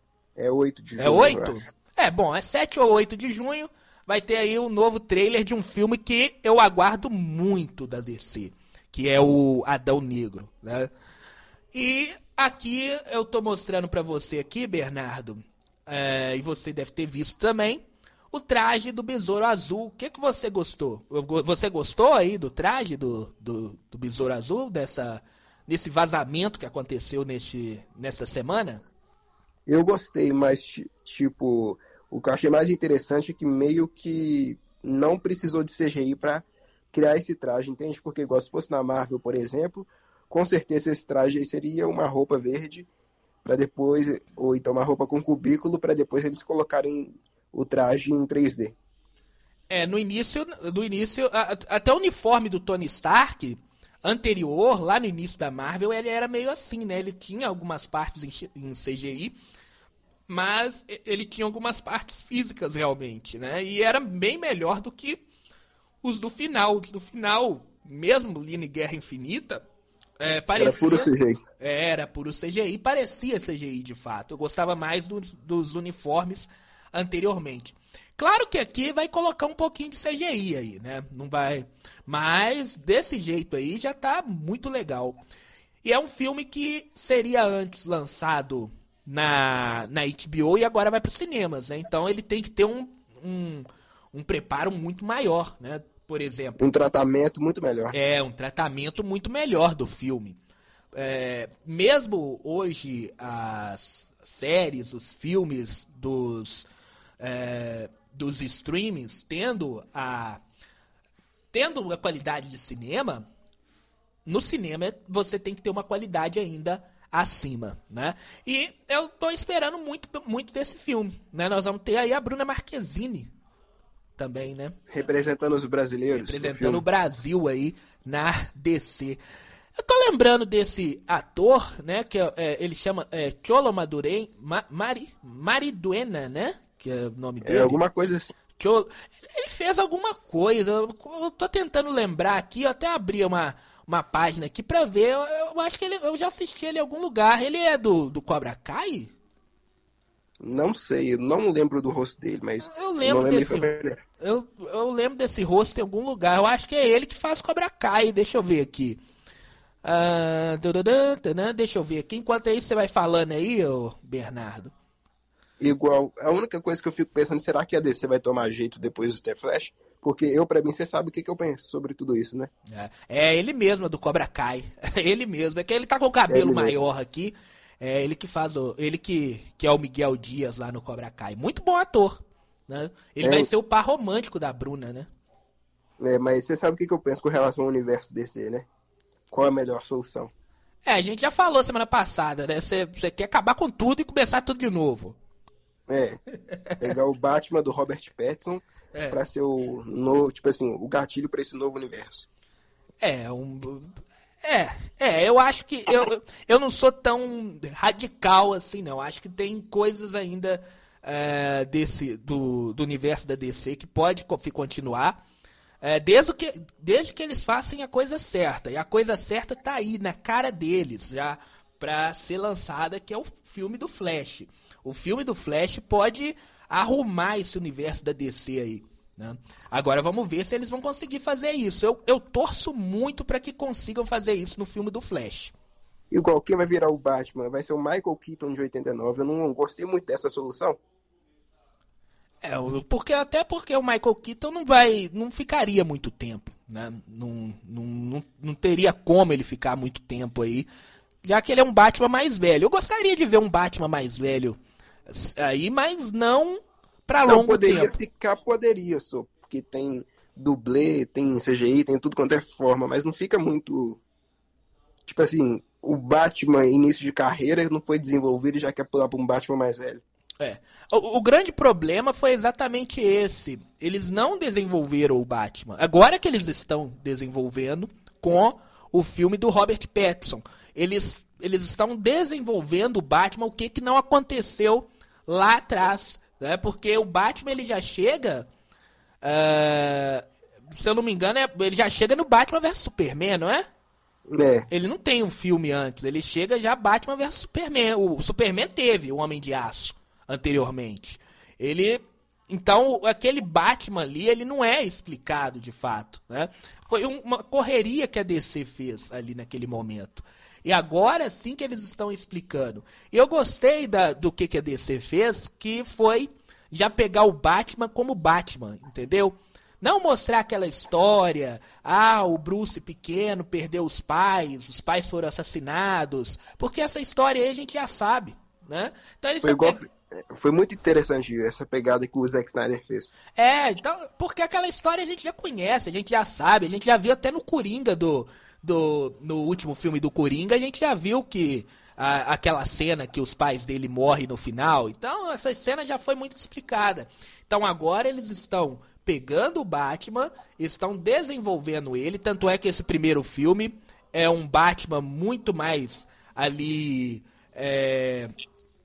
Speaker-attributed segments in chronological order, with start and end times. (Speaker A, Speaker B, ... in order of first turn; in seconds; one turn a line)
Speaker A: 0.4-1.6
Speaker B: 1.0-10.9
Speaker B: 11.7-28.8
Speaker A: 29.7-42.9
Speaker A: 43.4-48.8
Speaker B: 49.7-59.3
Speaker B: 60.3-65.2
Speaker B: 66.0-69.6
Speaker B: 70.2-85.2
Speaker A: 70.5-71.4
Speaker B: 85.8-96.6
Speaker A: 96.6-98.0
Speaker B: 97.9-100.4
Speaker B: 100.9-106.7
Speaker B: 107.2-110.4
Speaker B: 111.5-113.3
Speaker B: 114.2-123.3
Speaker B: 124.2-124.8
Speaker A: 124.9-126.8
Speaker B: 126.1-129.2
Speaker B: 129.8-137.8
Speaker A: 137.4-138.3
Speaker B: 138.6-149.1
Speaker A: 150.4-154.0
Speaker B: 152.6-159.0
Speaker B: 159.8-164.7
Speaker A: 165.6-172.5
Speaker B: 172.7-185.1
Speaker A: 176.3-176.8
Speaker A: 183.2-183.5
Speaker A: 186.0-188.7
Speaker A: 189.3-190.3
Speaker B: 190.8-195.2
Speaker A: 195.9-196.2
Speaker B: 196.5-196.9
Speaker A: 196.8-202.3
Speaker B: 203.0-215.2
Speaker B: 215.8-235.5
Speaker A: 236.1-240.8
Speaker B: 242.4-250.7
Speaker B: 251.2-257.9
Speaker A: 257.3-264.0
Speaker A: 265.1-270.0
Speaker B: 270.4-288.5
Speaker B: 289.2-293.6
Speaker A: 294.3-294.7
Speaker B: 294.7-329.8
Speaker A: 329.4-333.1
Speaker B: 333.4-358.3